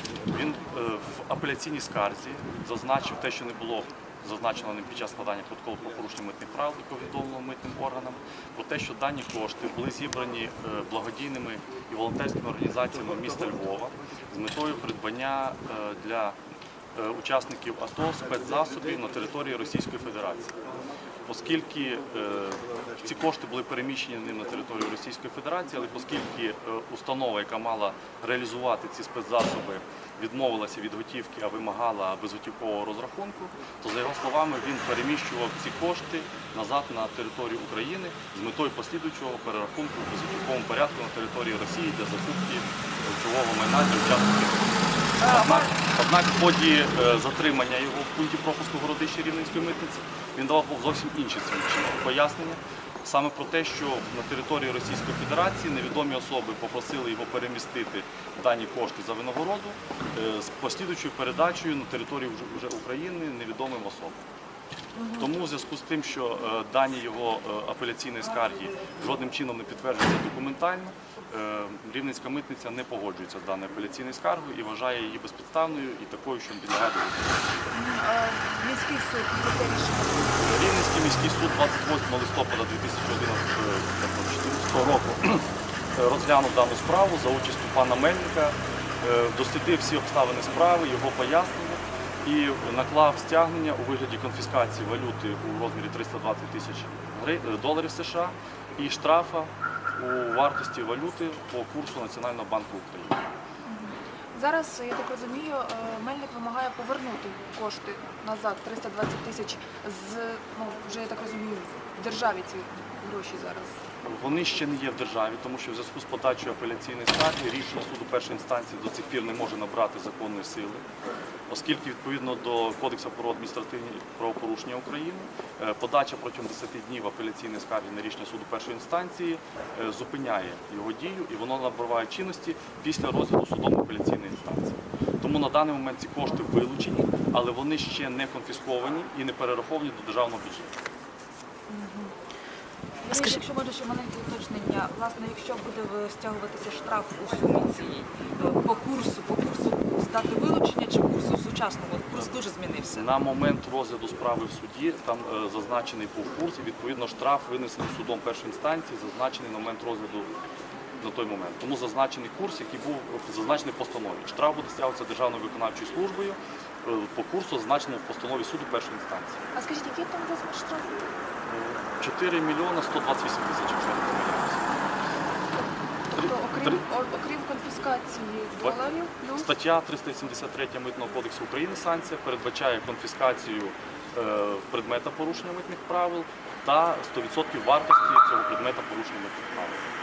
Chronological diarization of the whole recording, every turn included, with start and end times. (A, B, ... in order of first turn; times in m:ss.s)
0:00.3-0:16.4 A
0:17.0-0:20.5 A
0:21.3-1:04.2 A
0:45.2-0:45.7 B
1:05.0-1:05.3 B
1:05.2-1:17.7 A
1:17.7-1:20.6 B
1:20.4-1:43.2 A
1:43.7-1:53.8 B
1:54.0-2:00.8 A
2:01.5-2:20.7 A
2:21.7-2:22.1 C
2:23.1-2:33.1 C
2:32.9-2:40.3 A
2:41.0-2:49.4 A
2:49.5-2:51.1 B
2:51.5-2:54.7 A
2:55.5-2:59.5 B
2:56.1-2:56.8 A
2:59.4-3:09.9 A